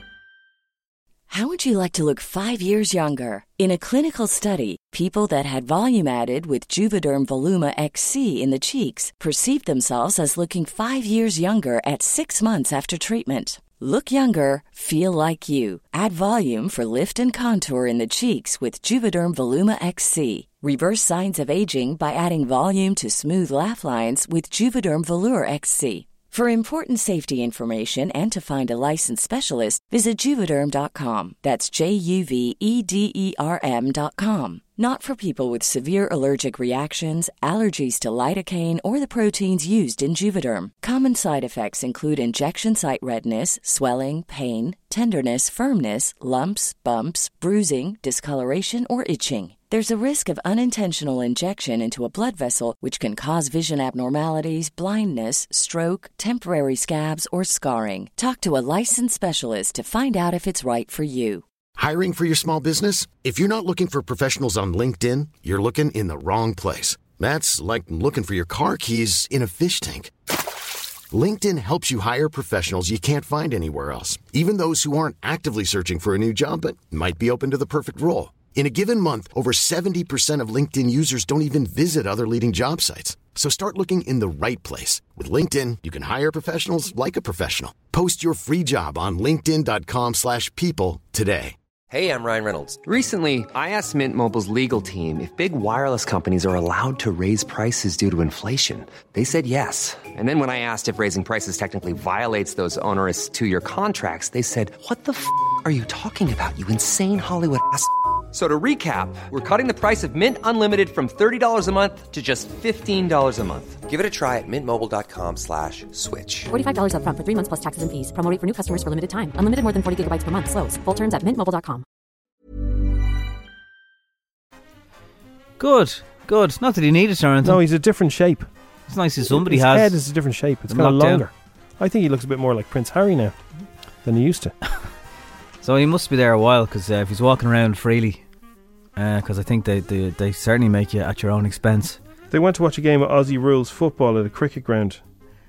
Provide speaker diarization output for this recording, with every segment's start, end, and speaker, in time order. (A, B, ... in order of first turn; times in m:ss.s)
0:01.3-1:01.4 A
1:01.8-1:10.1 B
1:11.1-1:31.6 B
1:31.9-1:56.5 C
1:56.5-2:01.8 D
2:05.6-2:07.6 E
2:07.4-2:08.5 F
2:08.9-2:10.0 E
2:09.3-2:13.4 F
2:10.7-2:11.2 E
2:14.0-2:14.5 F
2:15.6-2:18.2 E
2:19.0-2:22.0 E
2:22.3-2:25.0 F